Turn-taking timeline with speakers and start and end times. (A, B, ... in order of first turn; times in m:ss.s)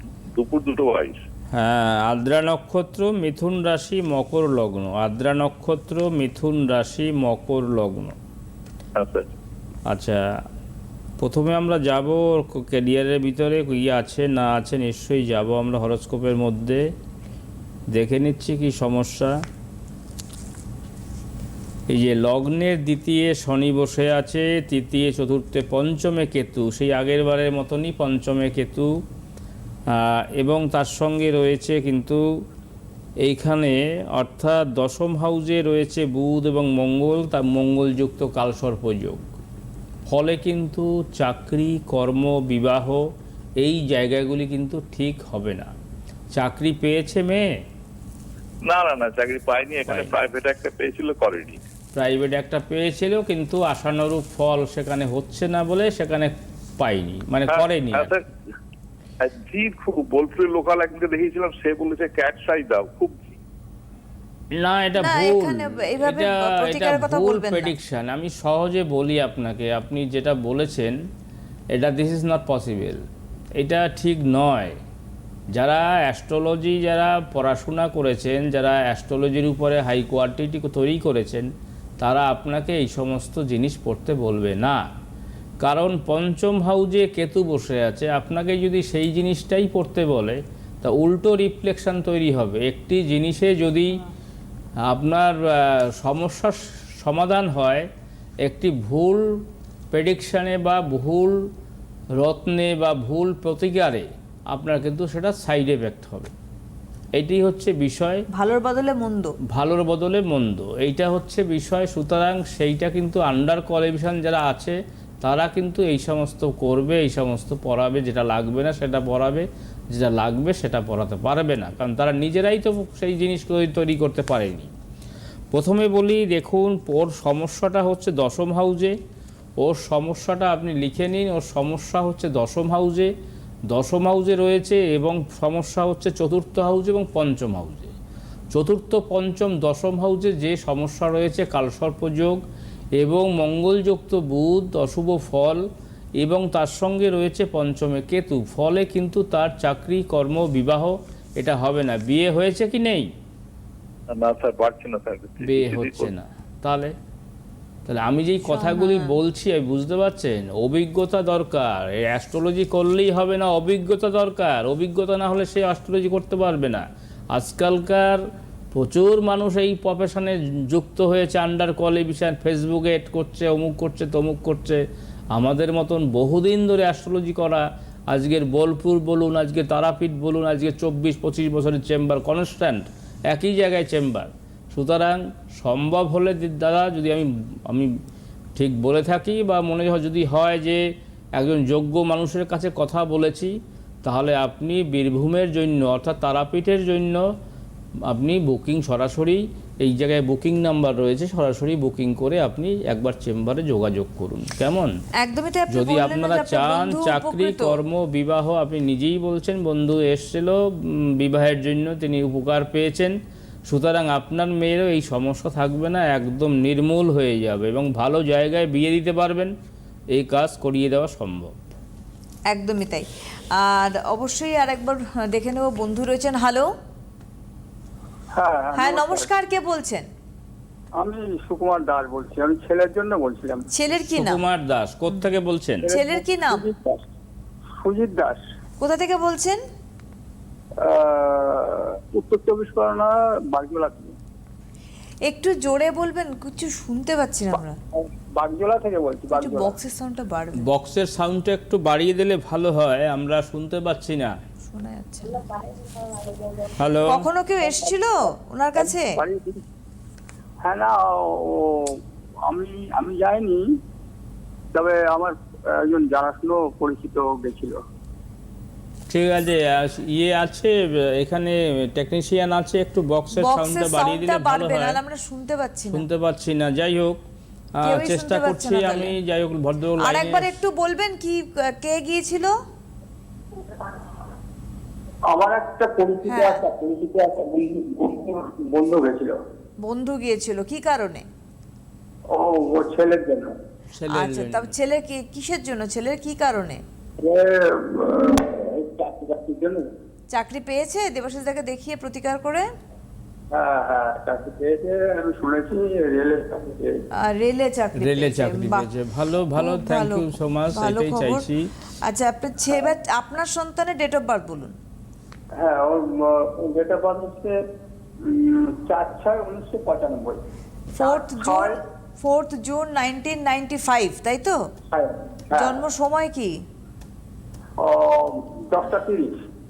0:00.4-0:01.2 A
0:01.5-0:08.2 B
0:09.0-0:09.3 A
0:09.9-0:10.2 B
0:11.2-0:16.8 B
0:17.9-0:19.4 B
0:21.9-0:28.9 B
0:29.9-0:32.2 B
0:33.2-0:39.2 B
0:40.1-0:43.0 B
0:43.6-0:45.7 B
0:46.3-0:47.5 B
0:48.6-0:51.6 A
0:49.9-0:50.1 B
0:52.0-0:58.2 B
0:57.5-0:58.2 A
0:59.2-1:03.3 A
1:04.6-1:11.0 B
1:05.0-1:07.7 C
1:11.7-1:13.0 B
1:13.6-1:14.8 B
1:15.5-1:24.9 B
1:25.6-1:34.0 B
1:34.9-1:37.9 B
1:38.4-1:39.2 B
1:39.9-1:41.4 B
1:42.2-1:46.3 B
1:47.2-1:48.2 B
1:48.3-1:49.4 C
1:49.5-2:04.7 B
2:05.5-2:09.0 B
2:09.6-2:13.1 B
2:13.7-2:17.9 B
2:18.5-2:22.4 B
2:23.0-2:25.6 B
2:26.2-2:33.1 B
2:34.1-2:36.1 A
2:35.4-2:36.9 B
2:37.9-2:48.2 B
2:38.5-2:39.2 C
2:48.7-2:54.8 B
2:55.3-3:07.9 B
3:08.6-3:10.8 B
3:11.4-3:17.2 B
3:18.1-3:24.9 B
3:25.2-3:27.8 C
3:25.7-3:33.2 B
3:33.7-3:39.5 B
3:40.1-3:41.6 B
3:42.5-3:46.7 C
3:48.3-3:49.3 D
3:48.8-3:50.1 C
3:51.0-3:53.6 D
3:53.7-3:54.4 C
3:53.9-3:55.9 B
3:55.8-3:57.0 D
3:55.9-3:56.6 C
3:57.8-3:58.4 D
3:58.8-3:59.6 C
4:00.8-4:04.1 D
4:05.3-4:07.8 C
4:07.9-4:09.7 D
4:09.3-4:10.7 C
4:10.6-4:14.4 B
4:14.6-4:15.5 C
4:16.0-4:16.8 D
4:16.8-4:17.3 B
4:17.0-4:19.2 C
4:17.6-4:17.9 D
4:18.8-4:19.6 D
4:20.6-4:23.6 D
4:24.7-4:27.8 D
4:29.1-4:35.0 B
4:33.4-4:36.1 C
4:35.9-4:37.2 B
4:37.8-4:40.6 B
4:37.8-4:39.2 C
4:40.0-4:42.5 C
4:45.3-4:49.4 D
4:46.3-4:46.6 C
4:49.8-4:51.3 C
4:52.3-4:53.5 D
4:53.9-4:54.7 B
4:54.1-4:56.8 C
4:57.2-4:59.9 D
5:00.3-5:02.6 C
5:03.5-5:07.0 D
5:07.2-5:08.9 C
5:08.0-5:11.7 B
5:09.6-5:11.4 C
5:12.0-5:14.8 C
5:15.6-5:17.6 D
5:18.2-5:20.4 D
5:20.9-5:24.6 C
5:21.0-5:21.8 D
5:24.9-5:25.8 D
5:25.6-5:26.6 C
5:27.8-5:29.4 D